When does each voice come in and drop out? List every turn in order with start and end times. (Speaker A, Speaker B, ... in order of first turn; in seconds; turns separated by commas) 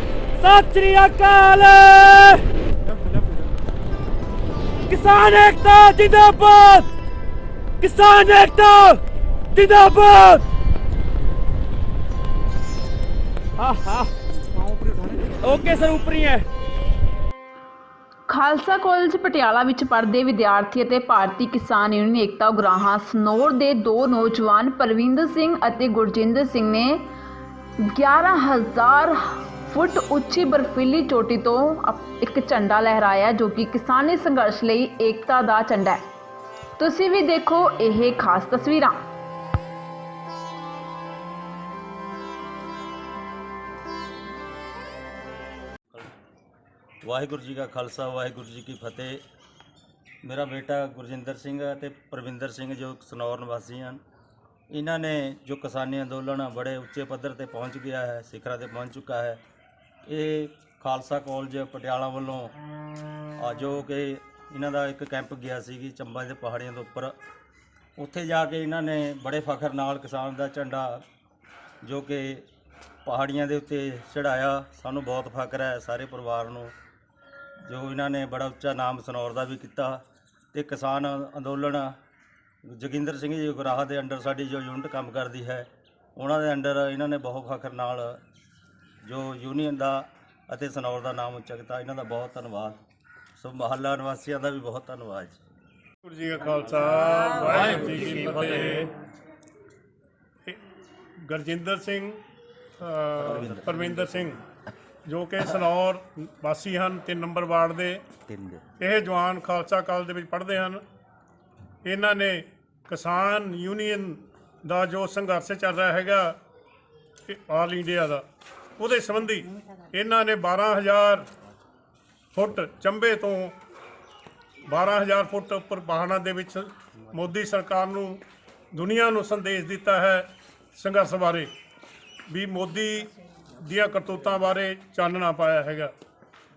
Speaker A: 0.4-2.5, Speaker A: 4.9-6.9, Speaker A: 7.8-9.0, Speaker A: 9.5-10.4, Speaker A: 13.6-14.1, Speaker A: 15.2-16.5, Speaker B: 18.3-27.1, Speaker B: 27.8-36.1, Speaker B: 36.8-39.0, Speaker C: 47.0-49.2, Speaker C: 50.2-54.0, Speaker C: 54.7-59.4, Speaker C: 60.1-62.5, Speaker C: 63.4-67.2, Speaker C: 68.0-71.0, Speaker C: 71.8-72.5, Speaker C: 73.0-76.7, Speaker C: 77.7-80.0, Speaker C: 80.5-82.0, Speaker C: 82.7-88.2, Speaker C: 89.0-92.8, Speaker C: 93.4-95.4, Speaker D: 96.0-98.9, Speaker D: 101.2-102.2, Speaker D: 102.8-104.4, Speaker C: 103.2-104.3, Speaker D: 105.0-108.0, Speaker C: 108.3-108.6, Speaker D: 108.8-110.8, Speaker D: 111.8-116.4, Speaker D: 117.3-118.2, Speaker D: 118.8-121.3, Speaker D: 122.3-123.6, Speaker D: 124.7-128.2, Speaker D: 128.7-131.5, Speaker D: 132.3-135.9